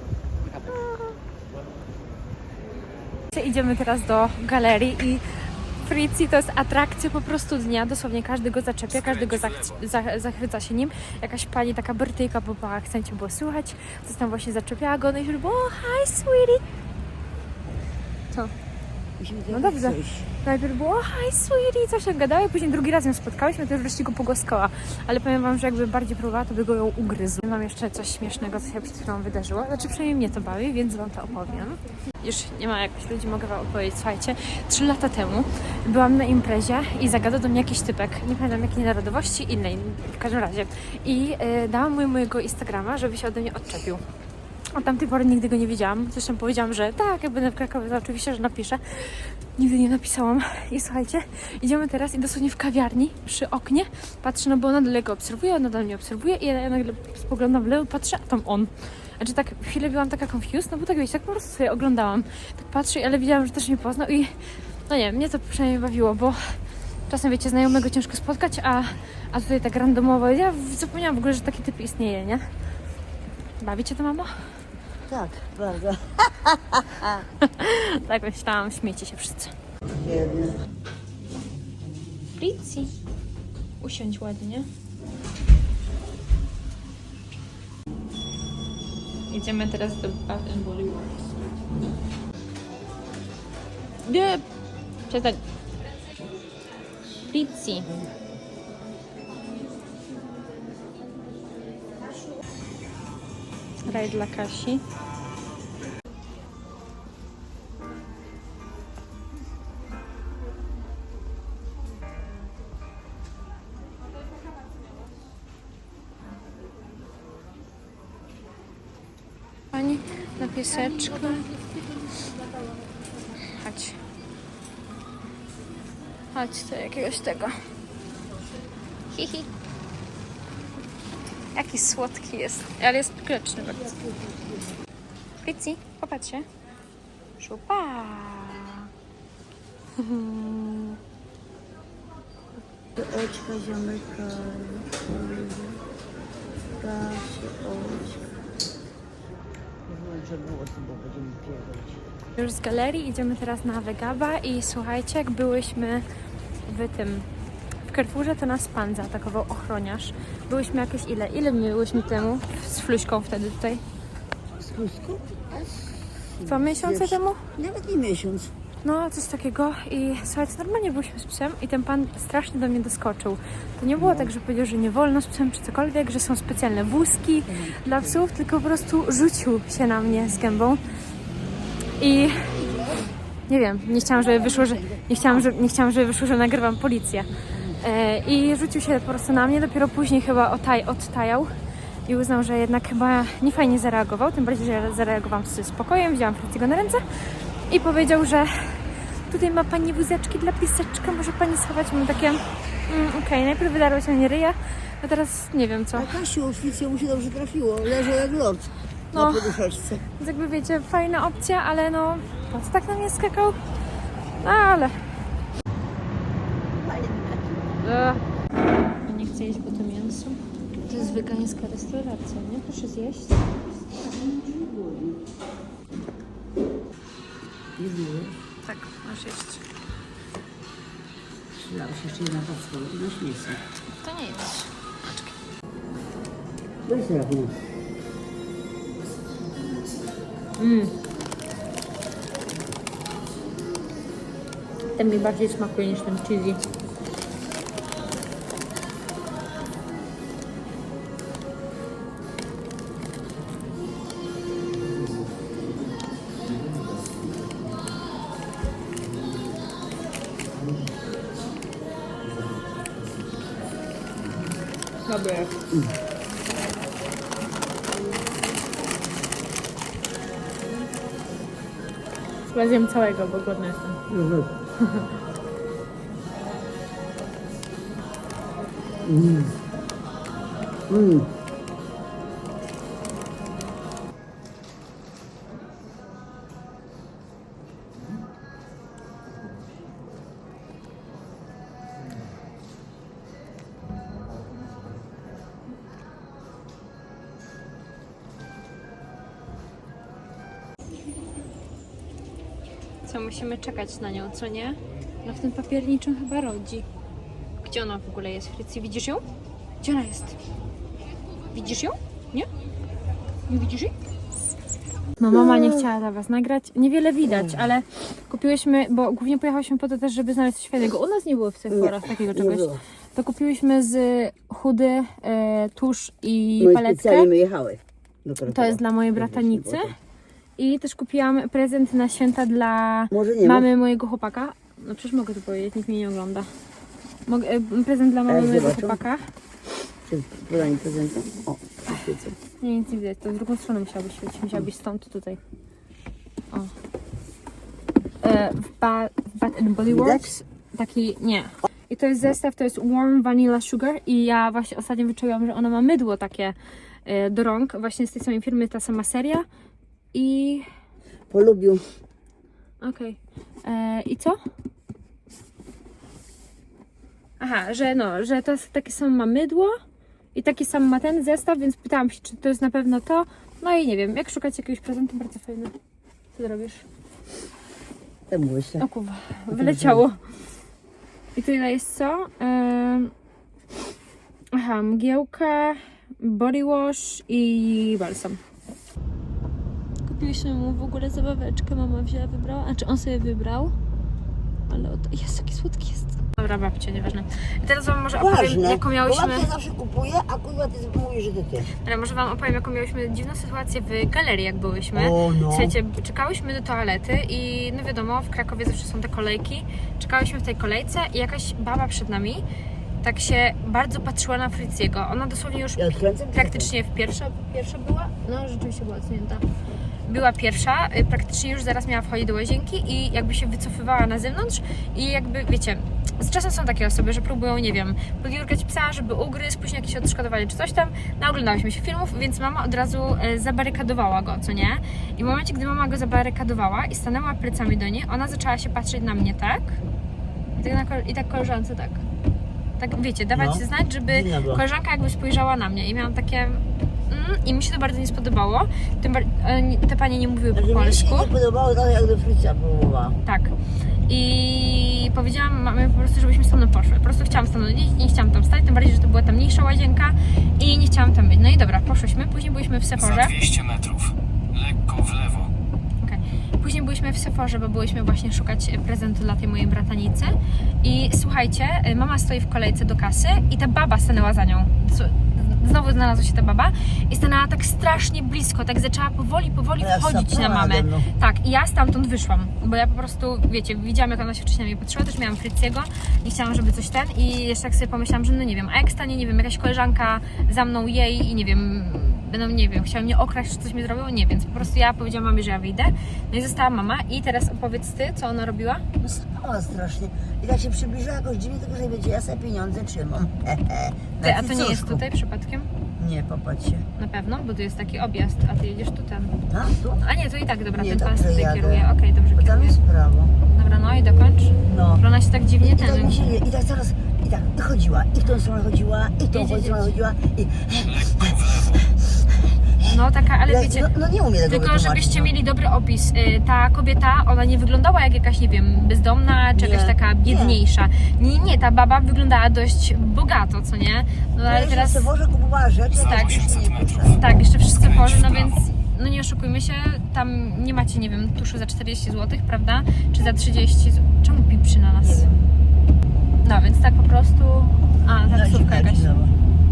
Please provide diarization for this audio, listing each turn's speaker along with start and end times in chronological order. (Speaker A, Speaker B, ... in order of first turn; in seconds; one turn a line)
Speaker A: 0.7-1.2
Speaker A: 3.3-16.6
Speaker B: 8.9-9.8
Speaker C: 19.2-20.3
Speaker A: 19.5-44.0
Speaker A: 44.7-72.5
Speaker A: 73.6-74.4
Speaker C: 75.1-77.2
Speaker A: 77.4-79.5
Speaker C: 79.9-80.6
Speaker A: 82.3-82.9
Speaker A: 83.8-84.7
Speaker A: 89.3-91.2
Speaker A: 94.0-94.4
Speaker A: 95.1-95.4
Speaker A: 97.3-97.9
Speaker A: 103.8-104.8
Speaker A: 119.7-121.5
Speaker A: 123.3-124.0
Speaker A: 126.3-127.6
Speaker A: 129.1-129.5
Speaker A: 131.5-133.9
Speaker C: 133.6-134.8
Speaker A: 135.4-136.4
Speaker A: 137.4-138.9
Speaker A: 139.9-141.0
Speaker C: 142.9-145.8
Speaker C: 146.8-148.4
Speaker C: 149.8-152.1
Speaker A: 152.4-156.1
Speaker A: 156.7-157.3
Speaker A: 157.8-163.8
Speaker C: 164.6-168.5
Speaker A: 166.4-167.4
Speaker A: 168.8-180.8
Speaker C: 174.0-174.3
Speaker C: 177.5-178.2
Speaker A: 182.0-182.5
Speaker C: 182.5-183.1
Speaker A: 183.5-191.5
Speaker C: 184.0-185.5
Speaker C: 187.5-187.8
Speaker A: 192.1-206.1
Speaker C: 205.9-210.0
Speaker A: 209.1-209.6
Speaker A: 210.2-213.6
Speaker A: 214.4-215.1
Speaker C: 216.7-217.8
Speaker A: 217.8-218.2
Speaker A: 219.0-223.4
Speaker C: 223.9-225.2
Speaker C: 227.8-228.3
Speaker A: 228.6-229.6
Speaker C: 231.5-233.6
Speaker A: 233.9-235.3
Speaker C: 236.8-237.6
Speaker A: 240.6-240.9
Speaker A: 244.9-246.6
Speaker A: 265.1-265.6
Speaker A: 272.4-274.0
Speaker C: 274.1-274.5
Speaker A: 274.8-275.1
Speaker C: 279.0-279.5
Speaker C: 280.9-281.3
Speaker A: 303.1-306.9
Speaker A: 307.6-309.2
Speaker A: 309.8-310.4
Speaker A: 311.5-312.5
Speaker A: 313.5-313.9
Speaker A: 315.2-327.3
Speaker C: 315.3-315.9
Speaker C: 317.2-317.7
Speaker C: 321.7-322.8
Speaker C: 326.6-329.9
Speaker A: 328.5-329.9
Speaker A: 330.6-336.5
Speaker C: 333.1-333.7
Speaker A: 337.3-339.3
Speaker C: 338.3-339.0
Speaker C: 340.1-342.4
Speaker A: 342.6-345.4
Speaker A: 348.2-359.4
Speaker C: 349.8-350.4
Speaker A: 360.1-360.7
Speaker C: 361.3-361.8
Speaker A: 362.8-364.4
Speaker A: 367.4-369.8
Speaker A: 370.3-375.7
Speaker A: 376.3-376.8
Speaker C: 378.3-378.9
Speaker A: 378.8-380.2
Speaker C: 379.5-380.1
Speaker A: 381.3-383.1
Speaker A: 384.5-388.4
Speaker A: 390.0-393.8
Speaker A: 394.7-399.5
Speaker C: 398.1-401.7
Speaker A: 401.7-412.4
Speaker C: 404.9-405.7
Speaker A: 413.0-419.4
Speaker C: 415.8-416.7
Speaker A: 420.1-439.8
Speaker A: 440.5-442.1
Speaker A: 442.8-451.3
Speaker C: 443.3-444.6
Speaker C: 450.5-453.2
Speaker A: 453.2-453.5
Speaker A: 454.1-463.3
Speaker B: 463.0-465.5
Speaker A: 466.0-498.8
Speaker C: 479.8-481.1
Speaker C: 499.0-505.0
Speaker A: 504.2-505.7
Speaker C: 506.0-506.9
Speaker A: 507.0-509.3
Speaker C: 509.5-510.0
Speaker A: 510.0-512.8
Speaker C: 510.7-513.3
Speaker A: 513.5-516.4
Speaker C: 514.6-515.0
Speaker C: 515.6-521.7
Speaker A: 519.3-519.9
Speaker B: 520.8-521.9
Speaker C: 522.8-525.3
Speaker A: 522.8-523.9
Speaker A: 524.5-535.1
Speaker C: 529.5-530.6
Speaker C: 534.4-537.2
Speaker B: 535.9-538.7
Speaker A: 536.0-536.5
Speaker A: 537.1-545.3
Speaker C: 545.0-545.5
Speaker A: 546.4-549.1
Speaker C: 548.2-549.4